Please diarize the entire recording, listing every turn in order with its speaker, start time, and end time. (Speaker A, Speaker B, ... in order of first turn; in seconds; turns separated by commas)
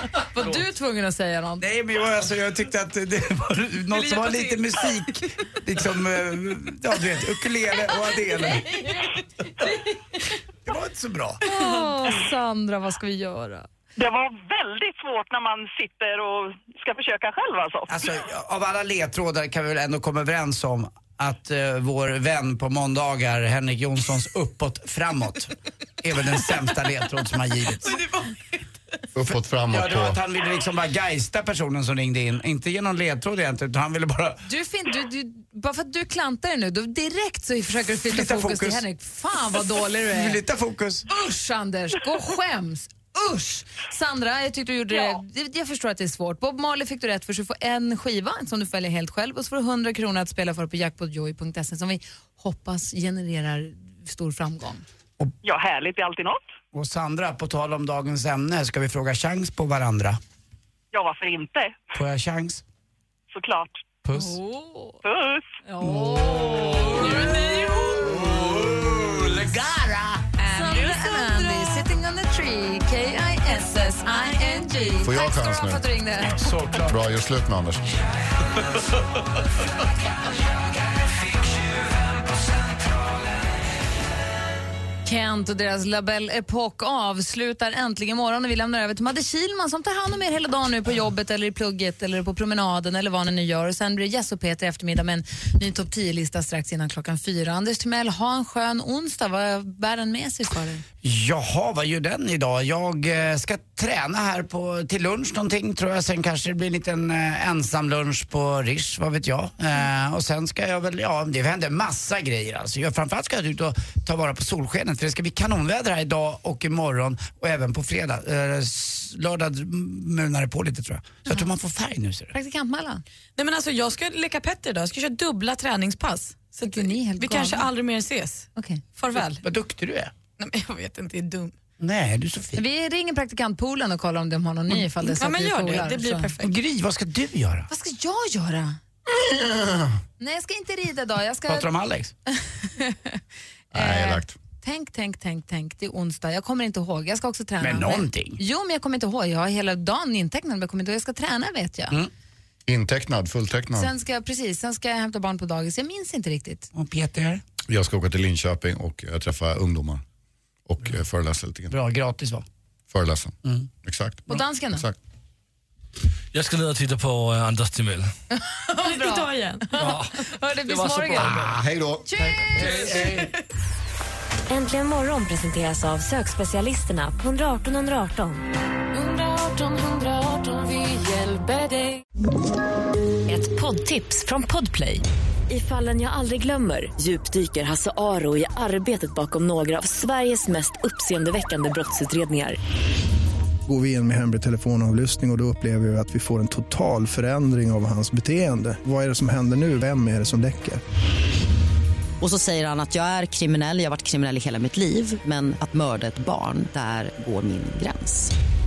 Speaker A: 0.3-1.6, Speaker B: 1.6-8.8, Speaker A: 4.0-4.9, Speaker B: 10.7-11.4, Speaker A: 11.4-13.7, Speaker C: 13.9-18.1, Speaker B: 17.9-28.0, Speaker D: 27.8-28.6, Speaker E: 29.1-30.2, Speaker B: 29.7-34.4, Speaker A: 34.5-40.4, Speaker B: 38.0-38.8, Speaker B: 40.1-41.0, Speaker A: 41.1-54.8, Speaker C: 55.4-56.4, Speaker B: 56.7-60.2, Speaker C: 60.9-61.8, Speaker B: 61.9-62.6, Speaker C: 63.3-63.8, Speaker B: 64.0-64.4, Speaker A: 64.1-65.0, Speaker C: 65.0-65.4, Speaker A: 65.6-67.3, Speaker B: 65.8-67.1, Speaker D: 66.9-68.1, Speaker B: 68.0-70.2, Speaker A: 70.4-76.6, Speaker D: 70.5-71.5, Speaker D: 74.2-74.9, Speaker E: 75.0-75.8, Speaker B: 76.6-76.9, Speaker E: 76.8-77.8, Speaker A: 85.0-100.8, Speaker B: 101.0-122.3, Speaker A: 122.3-123.0, Speaker D: 123.4-129.4, Speaker A: 126.6-127.7, Speaker A: 128.6-128.8, Speaker B: 129.4-130.1, Speaker D: 130.4-131.5, Speaker B: 131.8-132.6, Speaker A: 132.6-136.3, Speaker D: 135.1-136.6, Speaker B: 136.4-137.7, Speaker A: 137.7-138.8, Speaker E: 139.2-139.8, Speaker A: 140.2-141.7, Speaker B: 141.5-142.1, Speaker A: 142.7-143.2, Speaker E: 143.7-144.3, Speaker A: 143.7-152.0, Speaker B: 147.6-148.4, Speaker E: 152.7-153.9, Speaker A: 153.7-156.7, Speaker B: 156.7-157.4, Speaker E: 157.7-160.0, Speaker E: 160.7-161.7, Speaker B: 161.7-162.4, Speaker E: 162.9-164.9, Speaker A: 164.3-164.8, Speaker F: 166.3-168.1, Speaker A: 168.3-171.4, Speaker D: 168.8-169.7, Speaker F: 169.8-171.5, Speaker E: 171.2-173.0, Speaker B: 171.2-171.5, Speaker A: 172.1-173.1, Speaker B: 172.7-173.1, Speaker G: 174.5-178.4, Speaker H: 178.9-182.0, Speaker I: 183.3-192.6, Speaker J: 193.7-200.8, Speaker K: 202.2-208.3